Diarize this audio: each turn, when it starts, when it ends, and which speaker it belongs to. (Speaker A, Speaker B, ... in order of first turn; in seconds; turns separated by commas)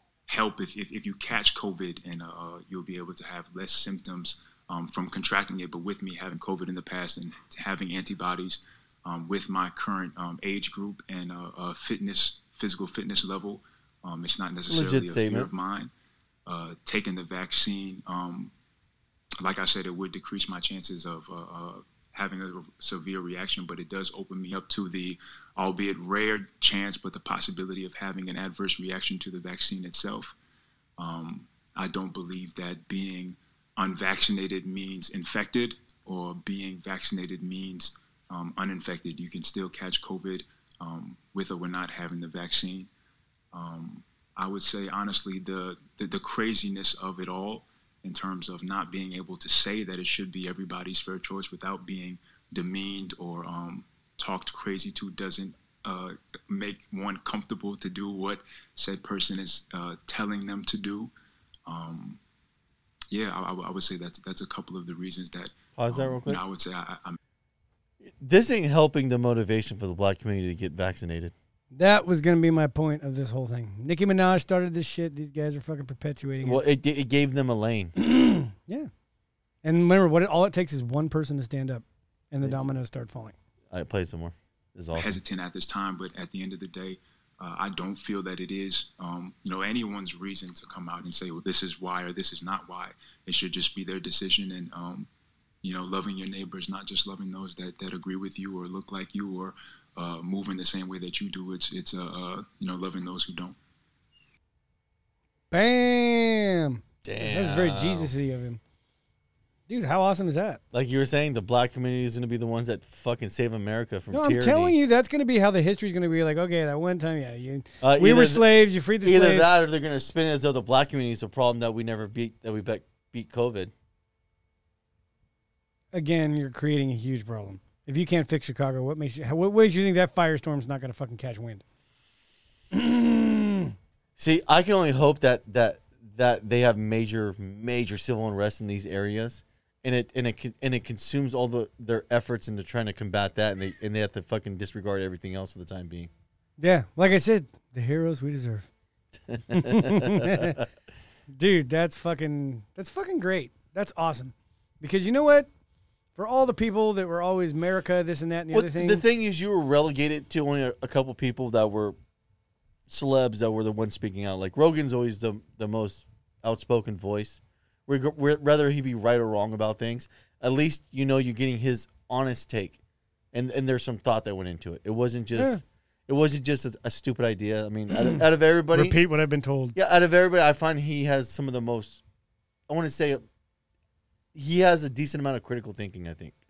Speaker A: 0.3-15.9, Speaker B: 14.7-15.5, Speaker A: 16.5-18.5, Speaker A: 19.4-30.4, Speaker A: 31.0-42.9, Speaker A: 43.5-61.1, Speaker A: 61.7-62.2, Speaker A: 63.1-67.2, Speaker B: 65.8-66.4, Speaker B: 68.0-71.3, Speaker C: 71.7-76.6, Speaker B: 76.4-77.9, Speaker C: 78.0-78.9, Speaker C: 79.6-83.3, Speaker B: 83.7-85.2, Speaker A: 84.9-95.1, Speaker A: 95.6-103.6, Speaker C: 105.5-108.6, Speaker B: 107.0-108.1, Speaker C: 109.7-110.6, Speaker B: 110.7-114.8, Speaker C: 114.1-119.5, Speaker B: 117.8-123.7, Speaker C: 125.9-131.6, Speaker C: 132.7-133.7, Speaker B: 134.2-146.1, Speaker C: 146.6-148.7, Speaker B: 149.3-150.6, Speaker C: 149.5-150.6, Speaker C: 151.3-155.5, Speaker C: 156.2-159.0, Speaker B: 158.5-162.0, Speaker B: 162.9-172.8, Speaker B: 173.3-179.0, Speaker C: 177.9-179.8, Speaker B: 179.8-182.0, Speaker B: 182.7-183.2, Speaker B: 184.3-186.3